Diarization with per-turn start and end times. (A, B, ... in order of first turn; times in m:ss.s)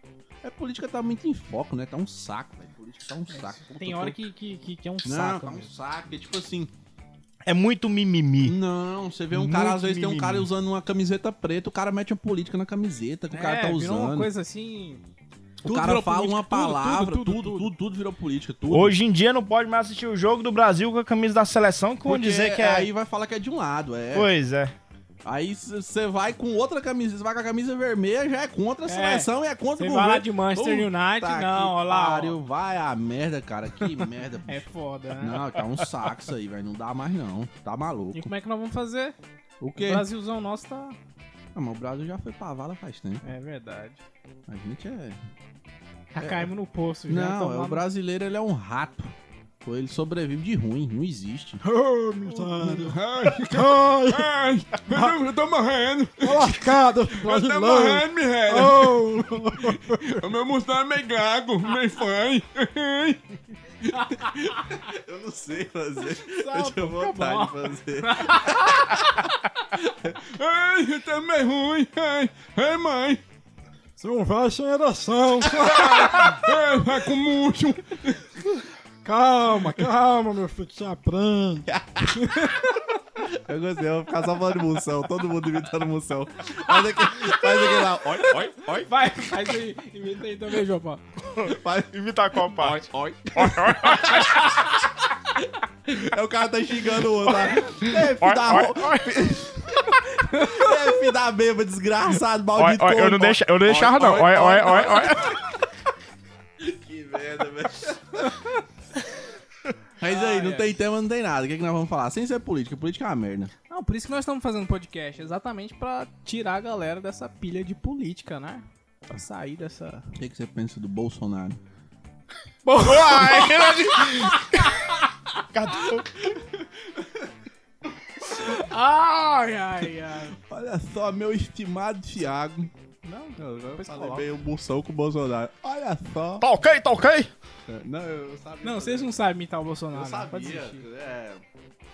0:00.4-0:04.2 A
0:03.3-0:05.7 B
0:05.0-0:06.7 A
0:07.5-0:08.6 C
0:08.4-0:14.3 A
0:09.3-0:10.5 C
0:13.3-0:15.0 B
0:15.6-0:17.7 B
0:15.6-0:19.0 A
0:18.7-0:22.9 C
0:22.1-0:24.3 A
0:24.1-0:24.7 C
0:25.2-0:34.6 A
0:28.9-0:32.4 B
0:34.5-0:35.6 B
0:35.2-0:38.3 A
0:38.1-0:39.2 B
0:39.6-0:40.0 A
0:39.8-0:41.0 B
0:41.6-0:43.2 A
0:43.2-0:44.0 B
0:44.5-0:45.2 A
0:46.1-0:47.8 B
0:46.2-0:46.5 A
0:47.1-0:51.6 A
0:51.6-0:54.3 D
0:52.3-1:03.2 A
0:54.9-0:55.2 D
0:56.2-1:00.3 D
1:03.8-1:13.2 A
1:06.2-1:09.4 B
1:14.0-1:16.5 D
1:15.6-1:18.4 A
1:19.0-1:21.7 D
1:21.7-1:22.2 A
1:22.2-1:22.8 B
1:23.2-1:28.9 A
1:27.2-1:31.0 B
1:31.4-1:32.8 C
1:31.4-1:31.9 A
1:32.5-1:45.6 A
1:33.3-1:34.4 C
1:37.9-1:39.3 C
1:40.3-1:40.8 B
1:42.6-1:45.4 C
1:46.6-1:48.5 A
1:50.0-1:53.5 A
1:50.0-1:50.7 B
1:53.7-2:00.1 B
2:00.2-2:01.6 A
2:02.7-2:05.1 B
2:02.9-2:03.7 C
2:03.0-2:04.3 A
2:05.5-2:06.1 C
2:06.2-2:07.3 A
2:08.2-2:10.4 B
2:10.3-2:12.7 A
2:13.0-2:14.3 B
2:13.4-2:16.5 A
2:16.4-2:17.3 C
2:17.7-2:19.1 A
2:18.6-2:20.8 B
2:19.9-2:21.4 A